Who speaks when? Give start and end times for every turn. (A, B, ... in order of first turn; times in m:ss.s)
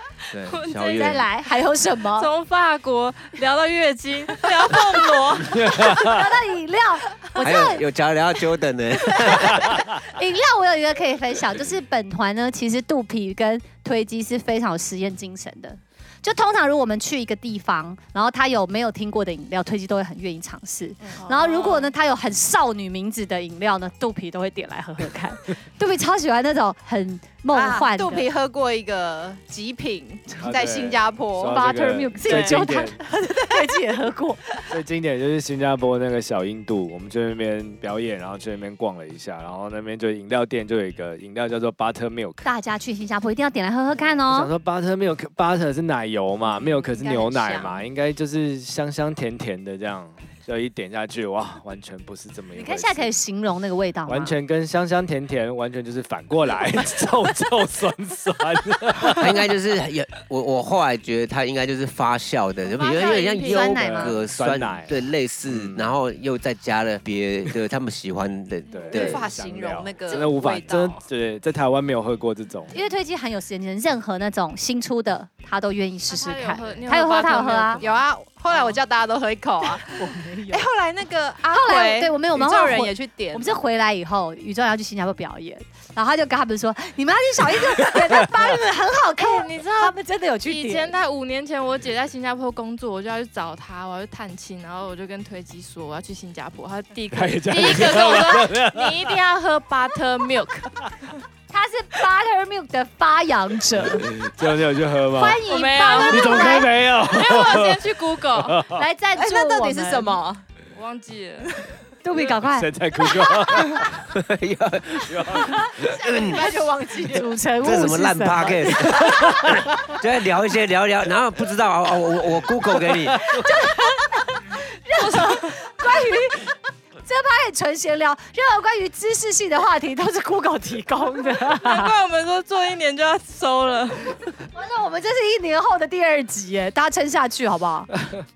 0:00.3-0:01.3 A
0:00.4-0:01.3 B
0:00.9-0:02.3 C
0:02.1-0:05.9 B
0:05.4-0:06.3 D
0:05.5-0:07.8 C
0:07.4-0:09.8 A
0:09.1-0:28.3 C
0:21.0-0:21.9 B
0:21.1-0:21.7 E
0:27.5-0:31.6 E
0:30.4-0:33.0 D
0:31.5-0:34.6 C
0:32.2-0:33.7 E
0:34.7-0:42.5 D
0:42.4-0:44.5 C
0:44.3-0:53.2 D
0:46.7-0:47.8 E
0:52.5-0:54.3 C
0:54.0-0:59.4 D
0:59.1-1:09.2 A
1:02.6-1:03.8 B
1:03.0-1:04.1 C
1:03.7-1:05.9 D
1:08.7-1:12.7 D
1:08.9-1:11.0 E
1:12.7-1:17.8 C
1:16.1-1:18.7 B
1:17.8-1:23.6 E
1:19.9-1:20.6 C
1:21.5-1:30.9 C
1:27.7-1:28.5 D
1:29.2-1:40.8 B
1:37.1-1:39.2 D
1:41.5-1:44.2 C
1:43.7-1:45.4 D
1:45.1-1:46.7 C
1:45.4-1:48.6 B
1:46.0-1:48.9 D
1:48.7-1:50.2 C
1:49.1-1:50.4 E
1:50.7-1:52.3 B
1:52.0-1:53.8 C
1:52.3-1:54.0 D
1:54.1-1:56.4 A
1:55.1-1:55.7 D
1:55.8-1:57.3 E
1:57.0-1:59.5 C
1:57.6-2:03.2 A
2:03.2-2:03.6 D
2:03.2-2:06.5 C
2:04.9-2:05.5 B
2:07.0-2:11.9 C
2:11.3-2:14.3 B
2:14.5-2:17.9 C
2:17.9-2:18.2 D